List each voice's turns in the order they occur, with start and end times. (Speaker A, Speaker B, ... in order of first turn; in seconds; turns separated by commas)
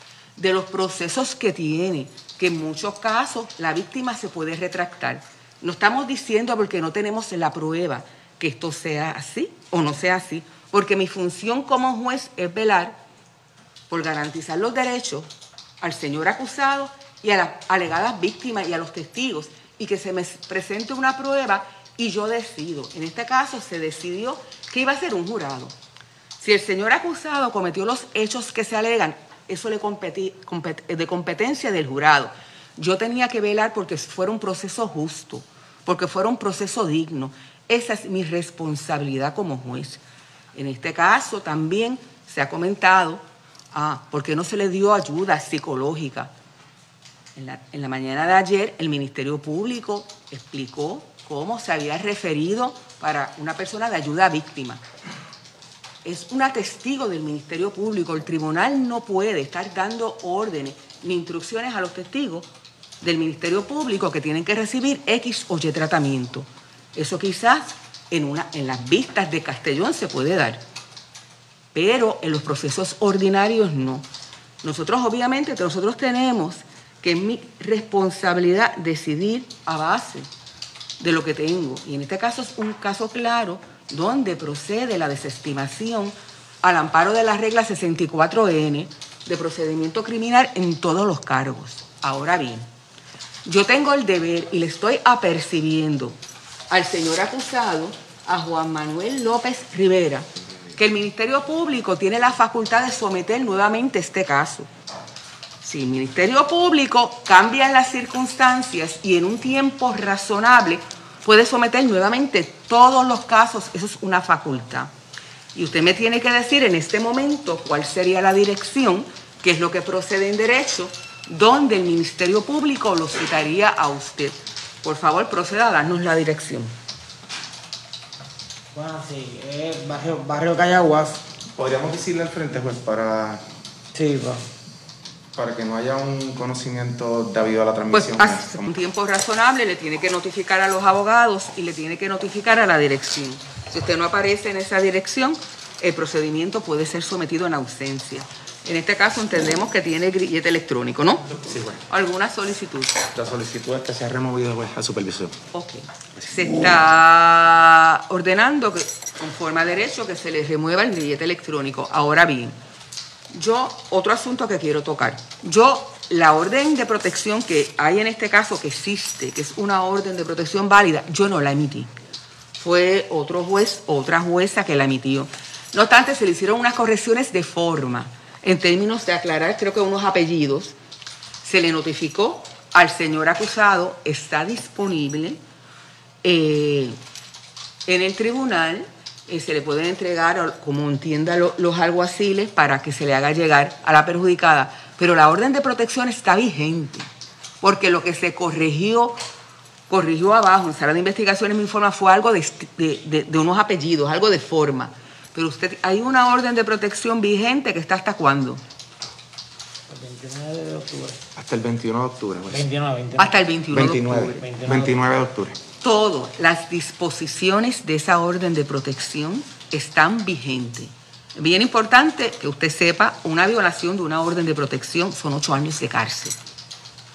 Speaker A: 0.4-13.0, Speaker A: 13.9-15.3, Speaker A: 15.8-25.7, Speaker A: 26.4-40.0, Speaker A: 40.5-46.3, Speaker A: 47.4-54.8, Speaker A: 56.0-62.5, Speaker A: 63.0-70.6, Speaker A: 71.7-74.1, Speaker A: 74.6-80.3, Speaker A: 81.0-92.7, Speaker A: 93.5-96.2, Speaker A: 96.7-104.7, Speaker A: 105.6-114.9, Speaker A: 115.5-126.7, Speaker B: 128.7-131.2, Speaker C: 131.5-133.4, Speaker B: 133.9-134.4, Speaker C: 135.4-138.6, Speaker A: 137.9-151.3, Speaker C: 151.4-151.8, Speaker A: 151.9-153.0, Speaker C: 153.2-155.3, Speaker A: 155.5-162.6, Speaker A: 163.3-171.9, Speaker A: 172.6-180.8, Speaker A: 181.4-185.4, Speaker A: 186.2-187.0, Speaker A: 187.9-197.1, Speaker A: 197.6-199.2, Speaker A: 199.9-208.6, Speaker B: 209.9-211.2, Speaker C: 211.4-212.8, Speaker B: 212.5-213.3, Speaker A: 213.2-214.4, Speaker C: 213.7-215.6, Speaker B: 214.4-214.9, Speaker A: 215.8-226.4